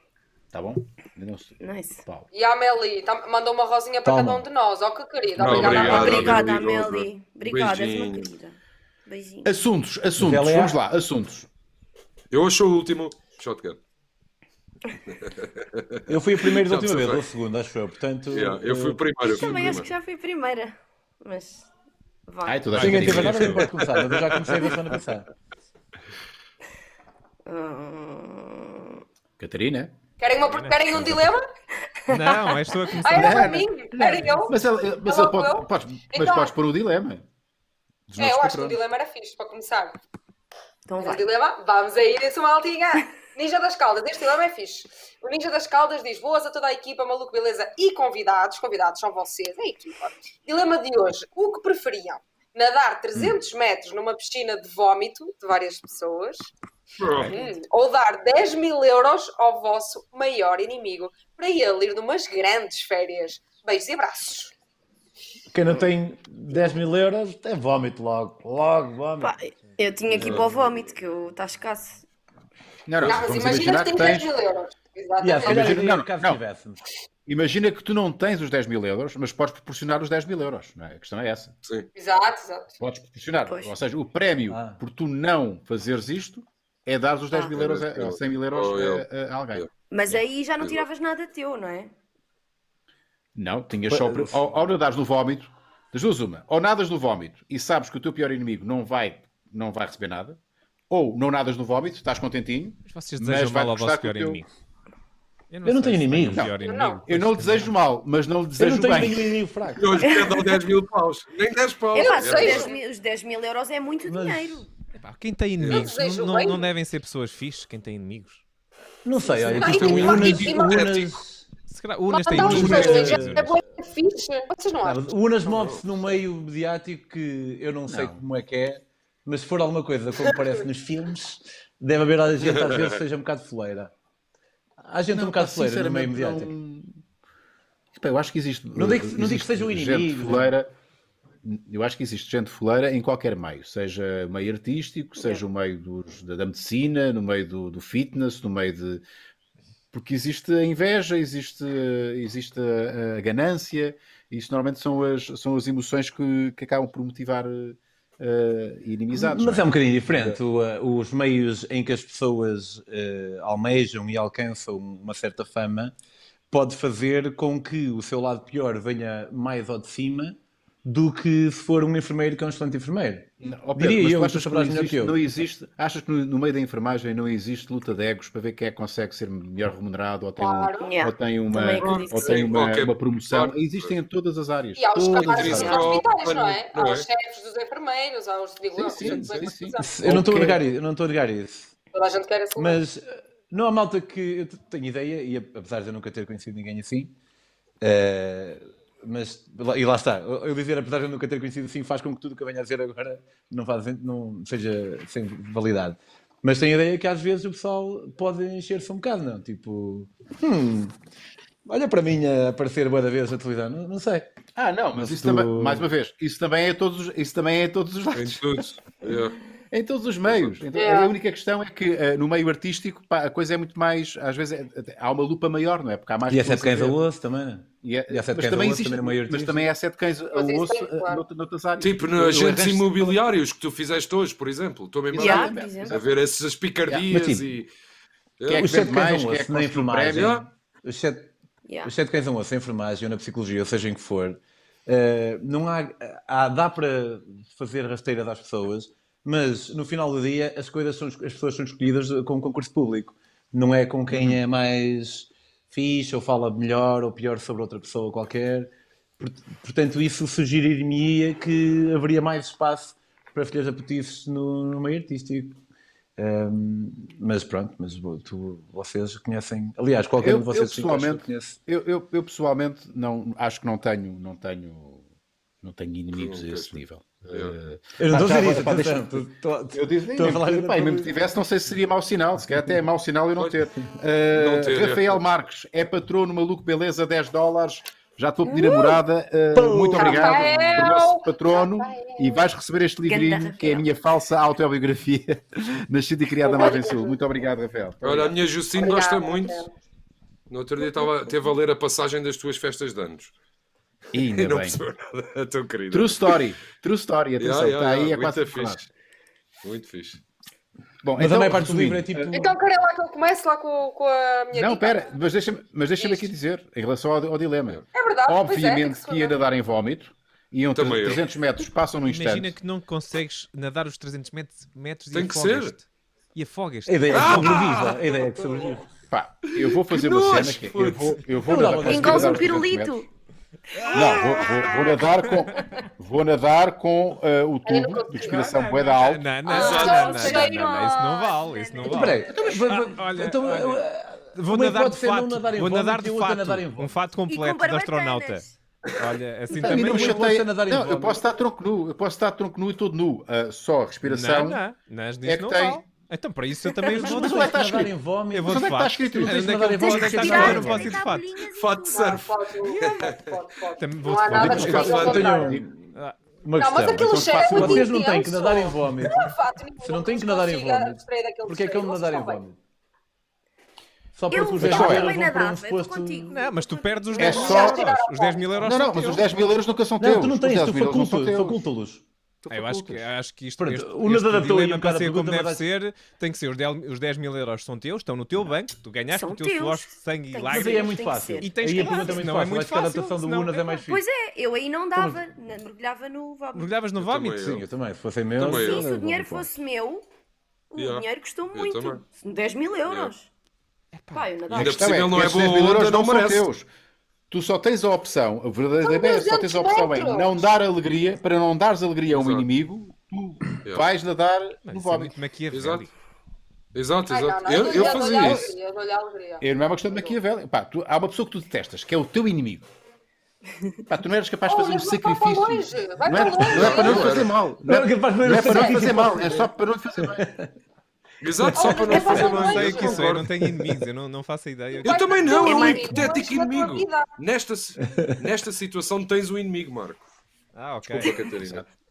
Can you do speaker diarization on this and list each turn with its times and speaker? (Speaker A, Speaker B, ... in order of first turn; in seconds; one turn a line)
Speaker A: 0.5-2.3
Speaker B: 1.6-2.0
Speaker C: 2.3-6.4
Speaker D: 4.0-4.4
Speaker E: 5.4-8.3
Speaker D: 5.4-6.0
Speaker A: 5.5-6.4
Speaker B: 5.7-9.5
Speaker A: 9.4-11.5
Speaker D: 10.2-10.8
Speaker E: 12.3-13.8
Speaker E: 15.1-17.2
Speaker D: 16.1-19.8
Speaker E: 18.3-19.9
Speaker B: 19.2-21.7
Speaker B: 22.2-23.1
Speaker A: 22.4-23.6
Speaker F: 22.7-23.6
Speaker D: 22.8-25.3
Speaker E: 23.8-24.7
Speaker B: 27.4-29.0
Speaker A: 29.4-29.9
Speaker C: 30.2-31.4
Speaker F: 30.5-31.1
Speaker F: 32.1-33.7
Speaker B: 32.1-32.6
Speaker C: 33.0-36.5
Speaker A: 33.1-37.2
Speaker A: 38.1-38.8
Speaker C: 38.2-40.0
Speaker B: 40.9-41.2
Speaker C: 41.0-56.5
Speaker E: 57.0-57.4
Speaker A: 57.0-57.3
Speaker C: 57.3-64.5
Speaker D: 65.5-69.3
Speaker B: 69.2-72.0
Speaker A: 72.9-74.3
Speaker C: 73.0-75.8
Speaker D: 75.2-76.8
Speaker A: 75.4-76.4
Speaker A: 77.2-81.5
Speaker C: 81.9-82.8
Speaker A: 82.8-89.7
Speaker B: 83.5-83.7
Speaker D: 84.5-84.8
Speaker E: 87.5-89.0
Speaker B: 89.9-91.9
Speaker A: 93.3-100.4
Speaker D: 93.9-94.4
Speaker A: 100.9-104.4
Speaker F: 102.8-104.5
Speaker F: 105.5-107.7
Speaker D: 105.6-106.5
Speaker C: 106.6-107.0
Speaker A: 107.0-109.3
Speaker D: 108.5-110.0
Speaker E: 109.8-112.7
Speaker B: 110.0-110.6
Speaker B: 111.9-114.7
Speaker C: 111.9-112.8
Speaker D: 114.0-114.7
Speaker F: 115.0-118.4
Speaker E: 115.6-115.9
Speaker C: 115.6-116.7
Speaker D: 119.0-121.4
Speaker C: 119.2-120.8
Speaker E: 119.5-121.1
Speaker F: 121.7-123.6
Speaker C: 122.1-125.0
Speaker D: 122.3-123.5
Speaker E: 122.4-122.9
Speaker D: 124.8-133.9
Speaker E: 125.5-125.8
Speaker A: 127.9-128.2
Speaker E: 132.4-133.0
Speaker D: 134.8-136.5
Speaker A: 135.1-137.0
Speaker A: 137.9-140.7
Speaker D: 138.7-140.5
Speaker A: 141.4-149.0
Speaker A: 149.9-160.4
Speaker D: 159.1-165.9
Speaker D: 166.5-175.2
Speaker A: 173.4-186.0
Speaker C: 180.4-180.9
Speaker B: 180.8-182.5
Speaker E: 181.8-183.9
Speaker C: 184.8-189.9
Speaker E: 185.1-187.1
Speaker B: 185.5-185.9
Speaker A: 188.7-190.6
Speaker D: 189.8-191.7
Speaker C: 191.9-192.8
Speaker D: 192.6-197.1
Speaker D: 197.8-210.9
Speaker D: 211.7-214.3
Speaker A: 214.6-219.2
Speaker D: 214.9-215.9
Speaker E: 218.1-219.4
Speaker A: 219.7-227.0
Speaker E: 220.3-220.6
Speaker C: 220.7-221.1
Speaker D: 226.3-229.7
Speaker A: 227.8-233.1
Speaker C: 230.3-231.2
Speaker E: 231.8-237.7
Speaker A: 235.1-236.1
Speaker B: 235.1-235.9
Speaker A: 236.9-237.2
Speaker D: 237.1-237.4
Speaker E: 238.4-238.7
Speaker A: 238.5-240.3
Speaker D: 238.5-241.3
Speaker E: 240.1-240.4
Speaker B: 241.7-241.9
Speaker D: 241.8-265.6
Speaker A: 254.1-254.4
Speaker D: 266.2-271.6
Speaker A: 270.2-275.0
Speaker A: 275.6-298.4
Speaker E: 276.1-276.8
Speaker E: 277.3-277.6
Speaker D: 278.0-281.1
Speaker E: 284.3-285.2
Speaker D: 289.5-290.5
Speaker C: 289.9-292.5
Speaker B: 293.1-293.8
Speaker C: 296.4-297.2
Speaker E: 298.0-299.7
Speaker C: 298.8-299.7
Speaker E: 300.5-303.3
Speaker A: 304.1-304.8
Speaker E: 304.2-306.4
Speaker A: 305.9-308.8
Speaker E: 307.4-308.9
Speaker E: 309.6-310.2
Speaker A: 311.0-312.3
Speaker D: 311.2-312.6
Speaker C: 312.3-315.1
Speaker A: 314.5-322.5
Speaker C: 316.0-316.3
Speaker C: 317.9-319.4
Speaker E: 320.7-321.2
Speaker F: 322.1-327.9
Speaker E: 325.1-325.7
Speaker D: 326.9-328.9
Speaker E: 327.1-328.0
Speaker A: 329.1-333.0
Speaker D: 329.8-332.6
Speaker B: 331.7-333.1
Speaker B: 333.9-335.6
Speaker A: 333.9-339.3
Speaker C: 337.6-338.9
Speaker F: 338.9-350.2
Speaker C: 339.4-341.1
Speaker B: 339.5-342.5
Speaker E: 339.5-340.3
Speaker D: 341.8-347.1
Speaker B: 347.3-348.5
Speaker D: 349.5-351.2
Speaker A: 349.6-354.6
Speaker F: 354.0-357.6
Speaker A: 355.2-355.8
Speaker A: 356.9-359.6
Speaker D: 356.9-361.0
Speaker F: 358.3-361.3
Speaker B: 359.8-362.2
Speaker E: 361.4-363.3
Speaker C: 361.9-365.6
Speaker F: 362.6-363.1
Speaker F: 363.8-365.2
Speaker A: 364.3-365.6
Speaker D: 364.4-372.6
Speaker E: 364.4-365.3
Speaker F: 365.9-366.2
Speaker C: 366.6-372.4
Speaker A: 366.9-367.9
Speaker D: 374.1-376.3
Speaker B: 374.3-377.8
Speaker A: 374.6-375.1
Speaker F: 376.3-379.2
Speaker A: 377.2-377.8
Speaker C: 377.2-378.7
Speaker A: 378.6-381.6
Speaker D: 380.0-382.0
Speaker A: 382.4-383.1
Speaker F: 382.5-393.8
Speaker D: 383.6-385.6
Speaker B: 389.1-392.2
Speaker D: 390.5-394.0
Speaker B: 393.8-396.7
Speaker D: 394.9-395.2
Speaker F: 396.5-397.5
Speaker E: 397.0-397.6
Speaker D: 397.4-399.5
Speaker E: 398.4-398.8
Speaker B: 398.6-400.1
Speaker B: 400.7-403.3
Speaker E: 400.8-402.0
Speaker E: 402.9-403.1
Speaker F: 403.9-404.3
Speaker B: 404.1-404.9
Speaker E: 404.5-406.4
Speaker A: 404.5-406.6
Speaker A: 407.3-415.1
Speaker C: 408.8-410.4
Speaker E: 412.1-412.4
Speaker F: 414.6-415.9
Speaker E: 415.5-415.9
Speaker E: 416.7-418.5
Speaker C: 417.1-420.2
Speaker A: 417.7-418.5
Speaker A: 419.4-422.6
Speaker A: 423.9-430.3
Speaker C: 424.5-427.2
Speaker E: 426.5-427.4
Speaker D: 427.5-429.5
Speaker D: 430.0-430.5
Speaker E: 431.2-433.3
Speaker D: 431.3-432.0
Speaker C: 431.5-433.1
Speaker F: 431.9-435.0
Speaker B: 431.9-432.5
Speaker E: 434.8-440.0
Speaker C: 434.8-437.1
Speaker B: 435.4-436.1
Speaker D: 437.8-438.1
Speaker F: 440.5-441.2
Speaker E: 440.9-441.6
Speaker A: 441.0-441.6